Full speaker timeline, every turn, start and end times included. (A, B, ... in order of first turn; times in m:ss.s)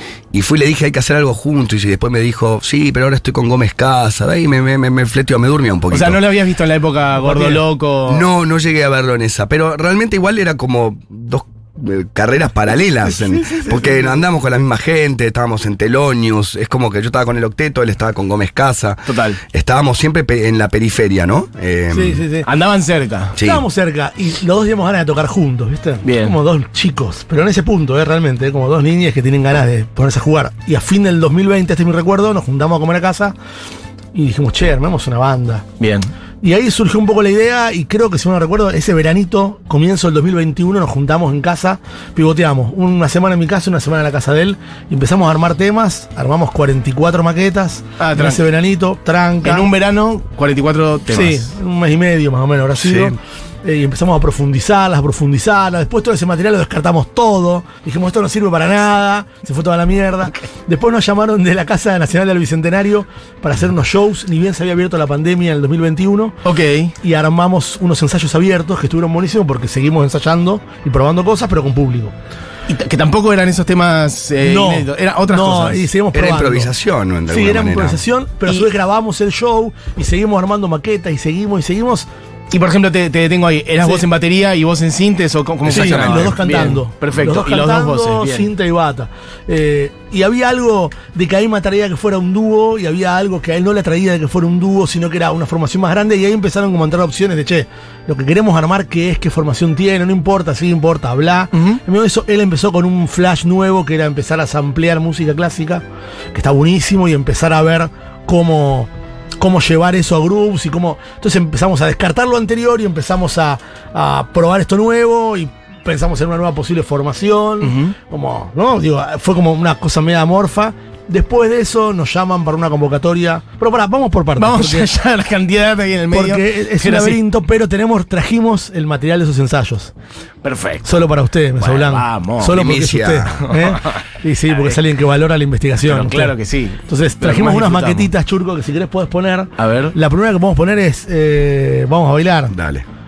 0:00.3-0:06.3 A
0:05.9-0:08.3 B
0:08.1-0:22.2 A
0:13.2-0:14.1 C
0:19.1-0:19.4 B
0:21.9-0:22.5 C
0:22.4-0:23.4 B
0:23.4-0:23.6 A
0:23.4-0:33.3 C
0:26.0-0:26.4 B
0:34.1-0:35.6 C
0:35.8-0:36.1 B
0:36.4-0:49.7 C
0:48.0-0:48.4 B
0:49.4-0:51.5 B
0:51.1-1:06.4 C
0:52.8-0:53.2 A
1:06.4-1:06.9 B
1:07.0-1:12.1 C
1:12.7-1:15.9 B
1:14.4-1:16.7 C
1:16.1-1:18.0 A
1:17.3-1:22.1 C
1:22.5-1:28.5 B
1:25.6-1:26.4 A
1:25.7-1:45.8 C
1:41.5-1:41.8 B
1:46.3-1:48.9 C
1:49.4-2:04.9 C
1:57.6-1:58.0 B
2:04.4-2:07.2 B
2:06.1-2:09.9 C
2:10.4-2:11.0 B
2:10.8-2:16.4 C
2:11.6-2:12.6 B
2:12.5-2:13.5 A
2:13.4-2:14.8 B
2:15.9-2:18.1 B
2:16.9-2:22.5 C
2:19.6-2:20.0 B
2:22.5-2:22.9 A